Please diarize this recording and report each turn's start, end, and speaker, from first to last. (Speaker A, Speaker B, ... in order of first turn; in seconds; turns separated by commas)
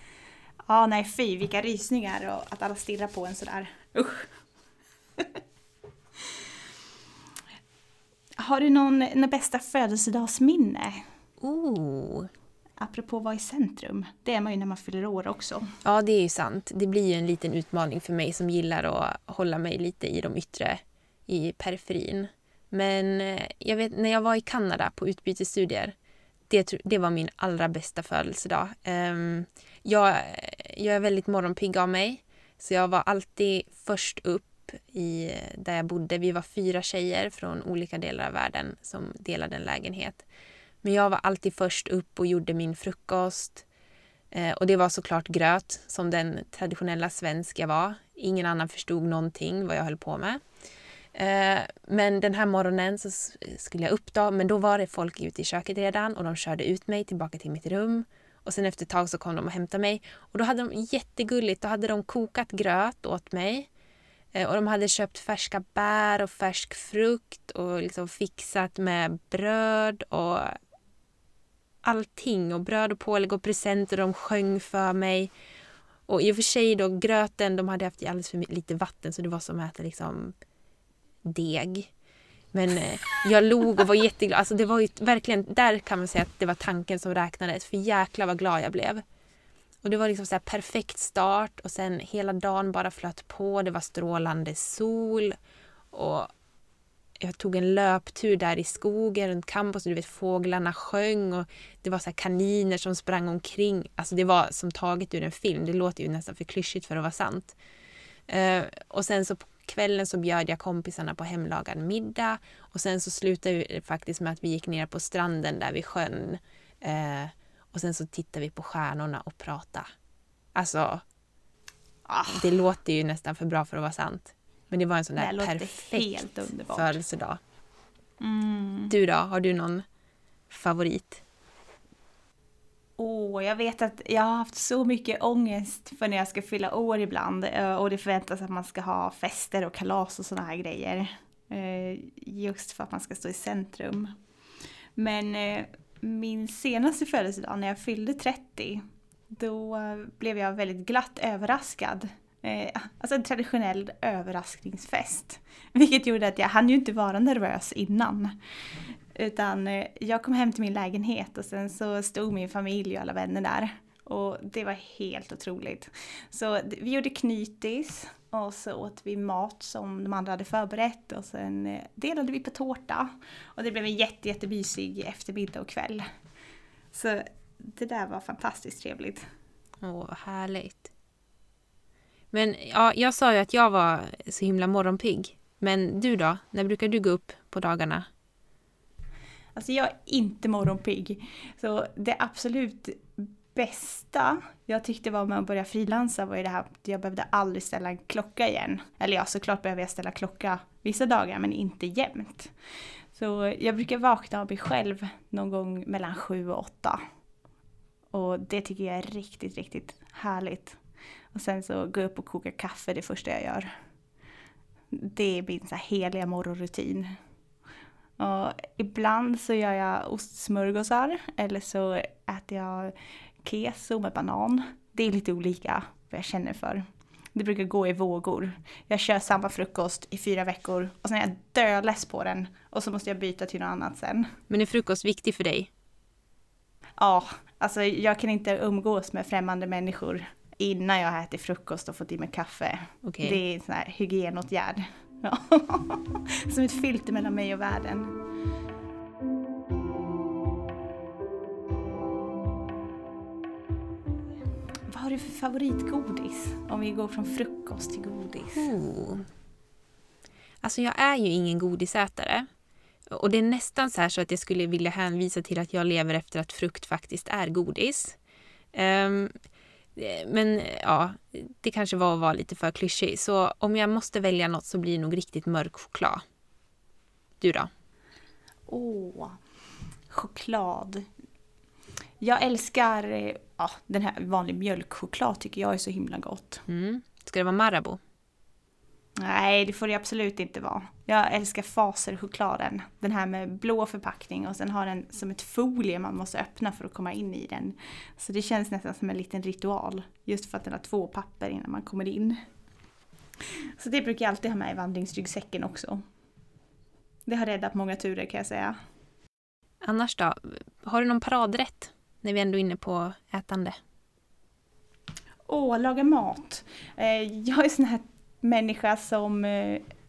Speaker A: 0.7-4.3, Speaker A: 8.4-11.1, Speaker B: 11.4-12.3, Speaker A: 12.8-15.7, Speaker B: 15.8-25.9, Speaker B: 26.5-40.2, Speaker B: 40.8-43.6, Speaker B: 44.3-50.4, Speaker B: 51.1-63.7, Speaker B: 64.3-70.6, Speaker B: 71.8-75.3, Speaker B: 76.1-80.3, Speaker B: 81.2-81.9, Speaker B: 82.5-89.0, Speaker B: 89.8-95.4, Speaker B: 95.9-96.3, Speaker B: 97.2-107.6, Speaker B: 108.3-119.9, Speaker B: 120.5-121.0, Speaker A: 122.1-122.5, Speaker B: 122.3-127.4, Speaker A: 125.2-127.0, Speaker A: 128.2-128.9, Speaker B: 128.9-129.8, Speaker B: 130.5-131.2, Speaker A: 133.0-144.1, Speaker A: 145.0-158.3, Speaker A: 159.1-176.0, Speaker A: 176.9-179.3, Speaker B: 179.8-180.9, Speaker B: 182.3-188.1, Speaker A: 189.6-202.5, Speaker A: 203.1-207.0, Speaker A: 208.1-210.8, Speaker A: 211.3-213.7, Speaker A: 214.9-217.1, Speaker A: 218.2-234.3, Speaker B: 234.5-235.7, Speaker A: 237.0-248.2, Speaker B: 243.0-243.4, Speaker A: 254.9-258.7, Speaker B: 258.6-259.3, Speaker B: 260.6-262.5, Speaker B: 263.1-268.2, Speaker B: 268.7-269.3, Speaker B: 270.0-276.2, Speaker B: 277.4-277.7, Speaker A: 278.7-279.4, Speaker A: 280.1-281.1, Speaker A: 282.2-286.6, Speaker B: 286.7-288.0, Speaker A: 289.2-302.4, Speaker A: 303.8-306.0, Speaker A: 307.3-308.8, Speaker B: 309.8-313.8, Speaker A: 315.5-319.9